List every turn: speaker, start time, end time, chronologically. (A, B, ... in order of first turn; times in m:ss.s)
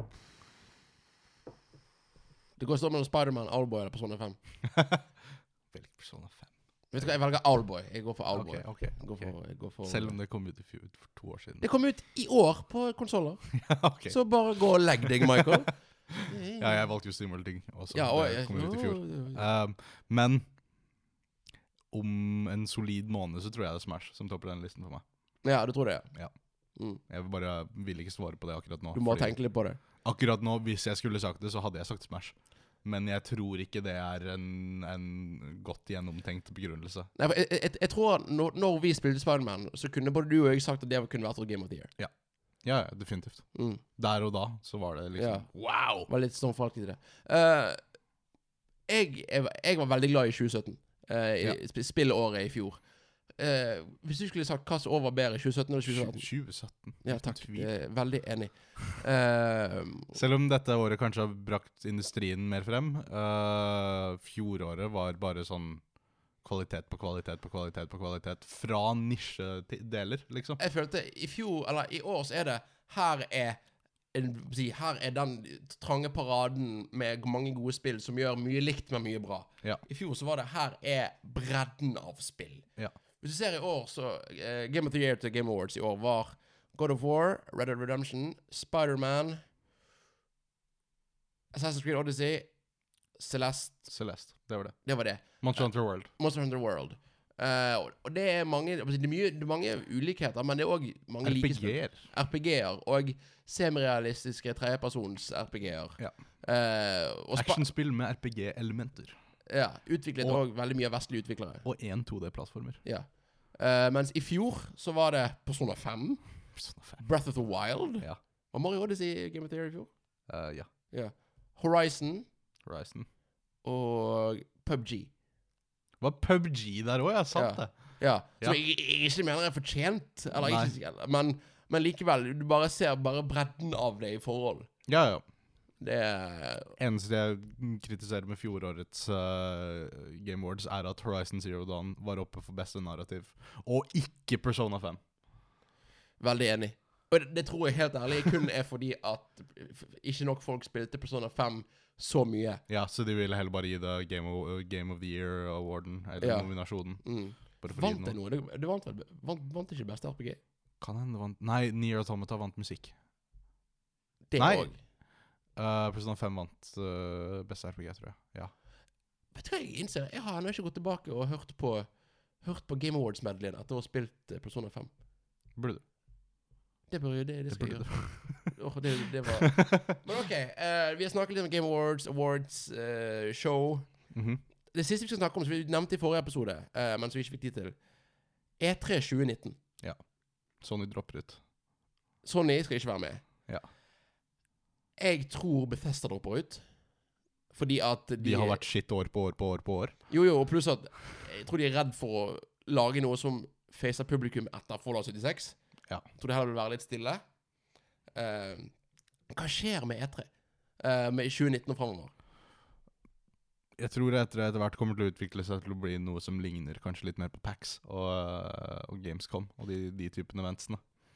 0:02.6-0:04.4 A
0:04.6-0:05.0 B
0:05.7-0:07.2 B
0:06.9-0:10.2 A
0:08.3-0:11.6 B
0:11.6-0:16.9 A
0:13.5-0:15.6 B
0:16.1-0:20.4 B
0:17.9-0:19.4 A
0:21.9-0:25.0 B
0:25.4-0:26.1 A
0:26.8-0:27.0 A
0:27.1-0:37.1 B
0:28.9-0:29.8 A
0:37.1-0:41.9 A
0:42.6-0:46.1 B
0:43.5-0:43.8 A
0:45.2-0:47.8 A
0:48.9-0:52.8 A
0:53.4-0:56.3 A
0:55.8-0:57.7 B
0:57.0-1:00.2 A
1:00.1-1:05.8 B
1:06.4-1:10.6 B
1:10.6-1:13.6 A
1:14.1-1:22.6 A
1:23.2-1:29.4 A
1:31.5-1:32.5 A
1:33.1-1:33.9 A
1:33.9-1:36.1 B
1:34.8-1:47.6 A
1:41.2-1:42.0 B
1:47.3-1:49.2 B
1:49.5-1:51.6 A
1:51.6-1:52.8 B
1:52.8-1:59.9 A
1:56.5-1:57.0 B
2:00.3-2:00.7 B
2:00.9-2:02.3 A
2:02.6-2:03.1 B
2:03.6-2:05.1 A
2:06.0-2:08.6 B
2:07.3-2:14.7 A
2:10.3-2:10.7 B
2:14.8-2:15.2 B
2:15.8-2:16.7 A
2:16.8-2:25.0 B
2:26.2-2:32.6 A
2:32.7-2:38.2 B
2:36.2-2:40.4 A
2:40.8-2:42.9 B
2:44.3-2:44.8 A
2:44.4-2:44.8 B
2:45.5-2:48.5 B
2:49.3-2:51.9 A
2:52.4-2:54.9 A
2:55.6-2:55.8 B
2:56.9-3:04.0 A
2:57.5-2:58.6 B
2:59.5-2:59.9 B
3:04.1-3:04.4 B
3:04.7-3:07.8 A
3:08.6-3:09.6 A
3:10.6-3:11.4 B
3:12.2-3:13.2 A
3:15.0-3:16.6 A
3:17.5-3:18.6 A
3:18.2-3:20.0 B
3:20.1-3:25.6 A
3:26.1-3:27.2 A
3:28.1-3:28.7 A
3:29.3-3:30.3 A
3:30.8-3:32.1 A
3:33.8-3:40.8 B